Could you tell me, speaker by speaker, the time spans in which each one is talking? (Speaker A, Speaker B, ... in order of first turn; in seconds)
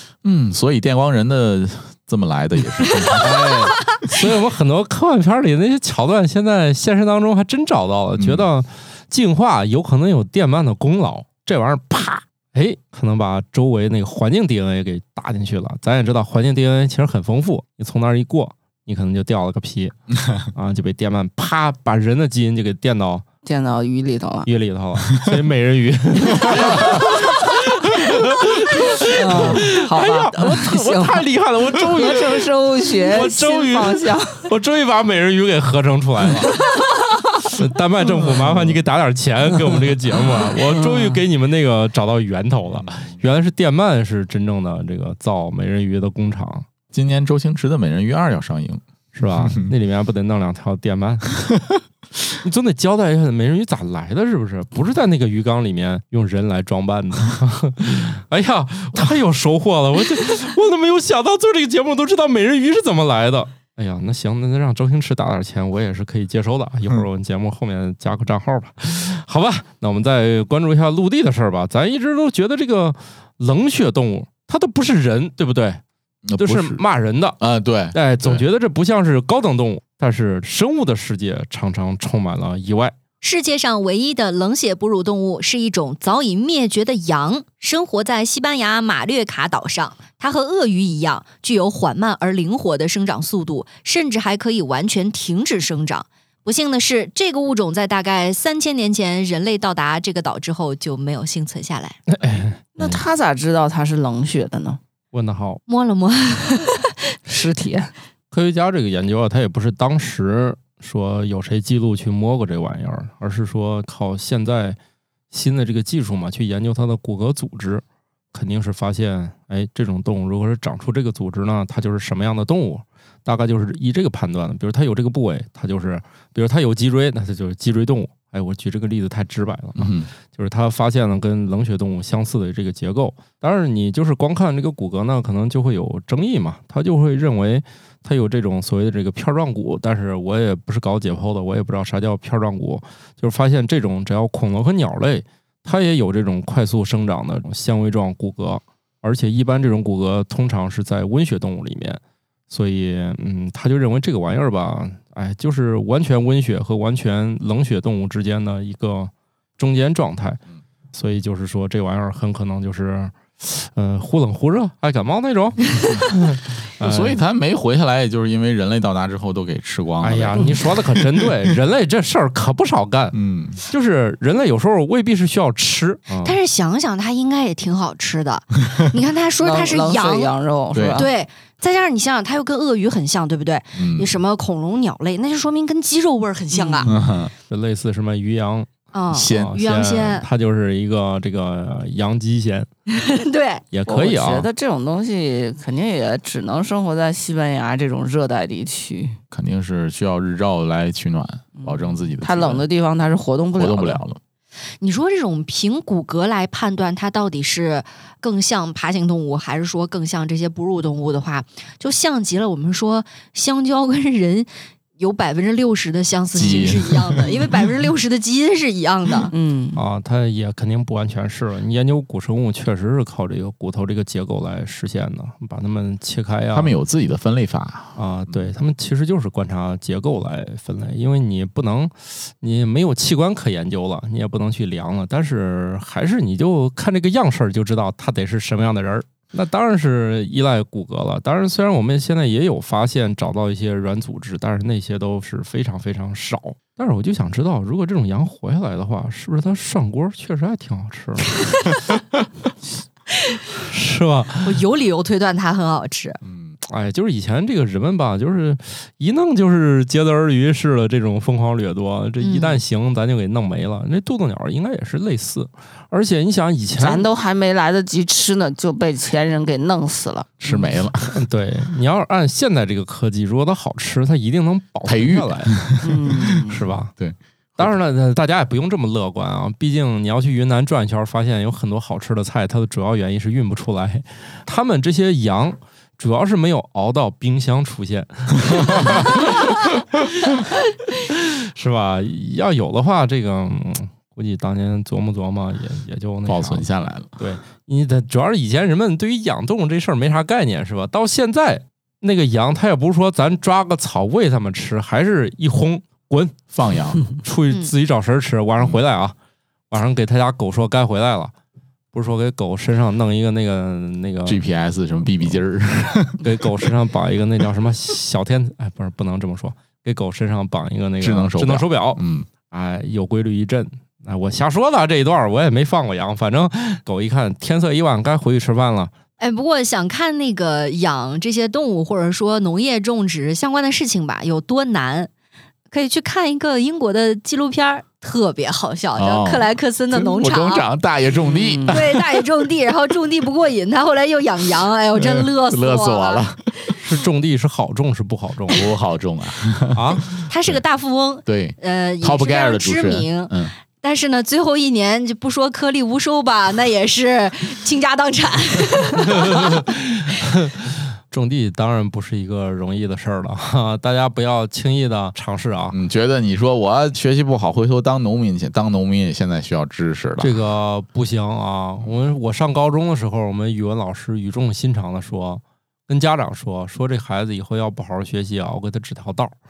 Speaker A: 0.2-3.6, 8.2-8.5, 38.3-38.8, 42.8-43.2, 46.9-48.8, 49.4-49.7, 76.3-76.8, 77.4-78.4, 129.8-130.1, 166.8-171.3, 173.1-173.6, 180.7-181.1, 183.8-184.2, 186.8-187.3, 189.1-189.6, 199.3-202.7, 203.6-204.2, 216.3-217.3, 226.5-228.5, 256.2-256.6, 270.4-271.2, 274.9-277.8, 296.3-297.2, 306.5-307.0, 314.3-316.2, 321.0-322.3, 339.0-342.2, 344.9-346.8, 348.5-350.6, 351.3-353.5, 365.7-370.4
Speaker B: 3.2-19.9, 20.5-23.2, 24.4-36.6, 37.5-46.7, 49.1-51.5, 52.4-75.8, 76.4-77.4, 77.9-83.0, 102.1-103.0, 105.1-105.6, 108.3-114.8, 115.3-160.4, 160.9-167.2, 170.0-173.2, 173.7-176.4, 187.5-188.7, 189.2-192.7, 193.7-194.5, 219.8-226.7, 228.0-251.4, 253.7-254.6, 256.7-267.1, 271.0-275.6, 276.5-276.9, 277.6-289.6, 290.2-306.4, 307.1-309.1, 309.7-311.3, 311.9-314.4, 316.2-328.9, 346.8-348.6, 349.7-350.1, 359.1-365.8, 370.2-379.4
Speaker C: 23.4-24.5, 28.9-34.5, 40.6-41.2, 102.8-104.8, 107.3-107.9, 179.4-181.1, 186.5-186.9, 193.9-199.2, 201.6-204.0, 219.3-219.8, 266.8-270.3, 275.8-276.6, 341.2-341.8
Speaker D: 83.2-102.0, 105.7-107.2, 176.2-180.4, 180.9-186.9, 188.9-190.3, 192.9-193.6, 204.8-219.3, 254.4-256.2, 262.2-262.6, 329.2-335.1, 335.7-340.7, 341.7-346.2, 350.3-359.6